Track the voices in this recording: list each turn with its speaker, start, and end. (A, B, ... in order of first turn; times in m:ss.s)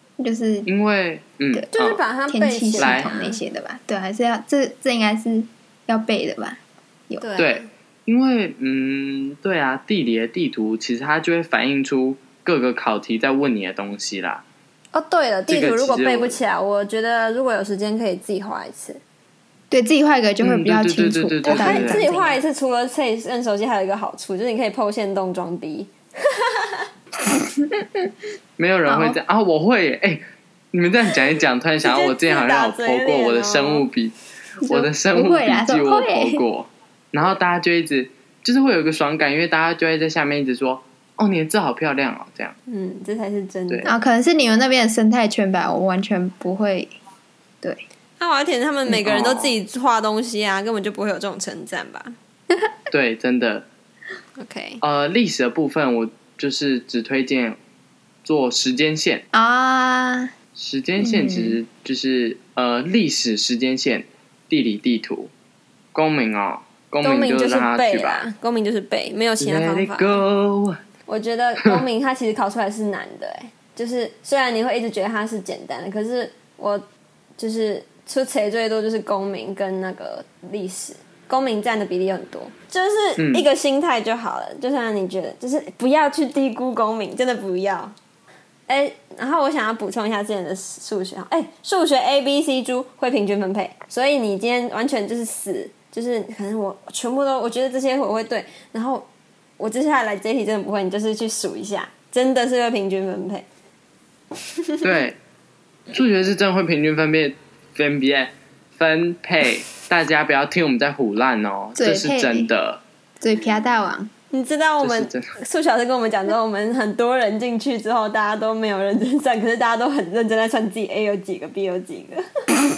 0:00.2-0:00.7 A
0:00.6-0:02.0 B
0:01.7-0:03.4 C
0:02.3-0:07.2 A
0:02.8-0:03.1 B
0:07.2-0:07.7 C
0:07.4-0:14.4 B
0:14.9-0:19.0 C
0:15.5-0:16.4 B
0:19.7-0:22.4 A
0:20.4-0:22.1 B
0:21.4-0:26.9 C
0:27.3-0:28.1 A
0:28.6-0:34.1 B
0:28.9-0:29.2 A
0:31.8-0:33.9 C
0:34.6-0:36.4 A
0:34.6-0:42.5 B
0:42.7-0:44.0 C
0:43.8-0:47.0 A
0:48.2-0:52.2 C
0:48.9-0:49.5 B
0:52.9-0:53.6 B
0:54.4-0:54.8 C
0:54.8-0:57.6 B
0:58.2-0:59.2 B
0:59.3-1:00.3 A
1:00.6-1:05.3 B
1:01.0-1:01.6 A
1:05.9-1:08.2 B
1:07.0-1:10.2 C
1:09.4-1:10.8 B
1:11.1-1:16.8 C
1:17.4-1:27.9 C
1:23.2-1:23.5 B
1:28.7-1:39.1 C
1:39.6-1:43.4 C
1:44.6-1:44.9 C
1:44.8-1:45.2 B
1:45.9-1:52.8 B
1:51.8-1:52.5 A
1:53.2-1:54.1 A
1:54.3-2:02.2 C
1:54.8-1:55.3 B